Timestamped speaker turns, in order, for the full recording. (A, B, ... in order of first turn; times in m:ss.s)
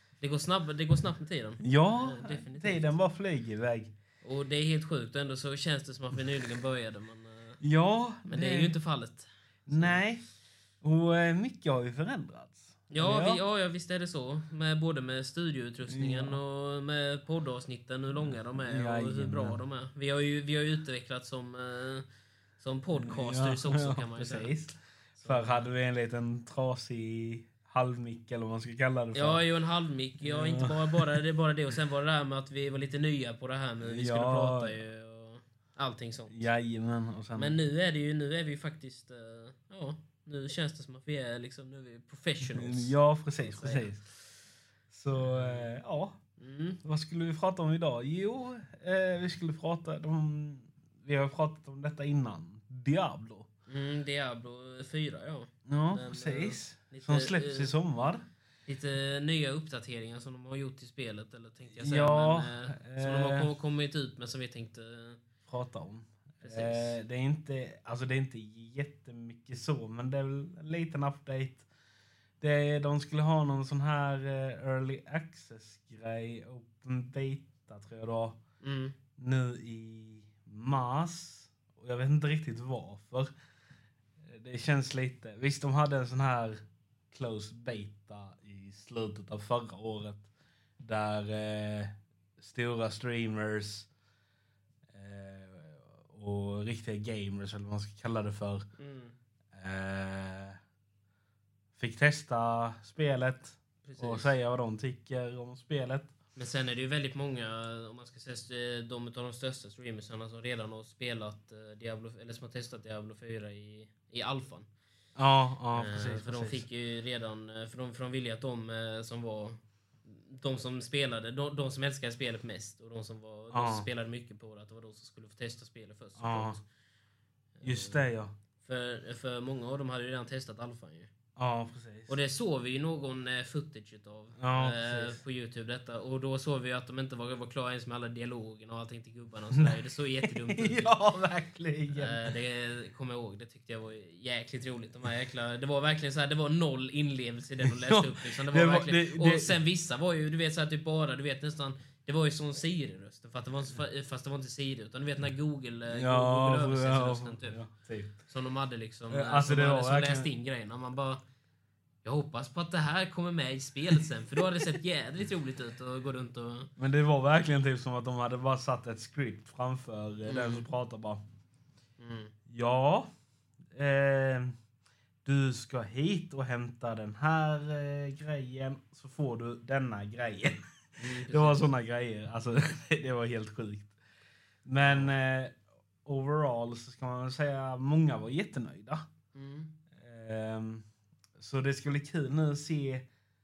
0:00.2-0:03.0 A
0:01.6-0:03.9 B
0:04.2-0:07.6 A
0:07.6-0:08.8 B
0:08.3-0:10.0 A
0:09.7-0:10.2 B
0:10.8-0:13.4 B
0:12.9-0:22.0 A
0:15.9-0:16.4 B
0:18.2-0:19.6 B
0:22.6-0:24.5 A
0:22.9-0:29.4 B
0:25.2-0:25.7 A
0:29.1-0:36.5 A
0:30.2-0:31.1 B
0:33.8-0:34.8 B
0:36.3-0:37.6 B
0:37.4-0:43.9 A
0:42.4-0:44.0 B
0:44.9-0:46.2 B
0:45.1-0:45.8 A
0:46.4-0:46.8 A
0:46.8-0:53.5 B
0:53.7-0:57.7 A
0:55.7-0:58.2 B
0:58.7-1:05.2 A
1:01.7-1:03.5 B
1:05.5-1:11.7 B
1:06.4-1:07.0 A
1:12.4-1:18.4 B
1:18.6-1:19.0 A
1:19.2-1:23.3 B
1:24.3-1:26.6 B
1:27.1-1:30.3 B
1:30.8-1:33.9 B
1:34.9-1:38.7 B
1:38.8-1:39.1 A
1:39.5-1:40.6 B
1:41.8-1:46.1 B
1:43.8-1:44.3 A
1:46.3-1:54.7 A
1:55.2-1:56.6 B
1:55.7-2:06.6 A
2:03.5-2:03.9 B
2:06.2-2:06.6 B
2:07.6-2:08.1 A
2:07.6-2:08.3 B
2:08.6-2:11.1 A
2:11.4-2:12.1 B
2:12.1-2:21.0 A
2:14.4-2:15.2 B
2:19.5-2:22.3 B
2:21.9-2:37.6 A
2:27.6-2:29.6 B
2:35.9-2:38.2 B
2:38.3-2:41.2 A
2:39.1-2:40.3 B
2:42.0-2:46.7 A
2:46.8-2:51.2 B
2:50.2-2:50.7 A
2:52.0-2:52.3 A
2:52.5-2:53.1 B
2:53.7-2:54.5 B
2:55.2-3:03.9 B
3:01.0-3:01.7 A
3:04.6-3:09.0 B
3:04.8-3:05.1 A
3:09.3-3:09.7 A
3:09.9-3:10.8 B
3:11.4-3:13.0 B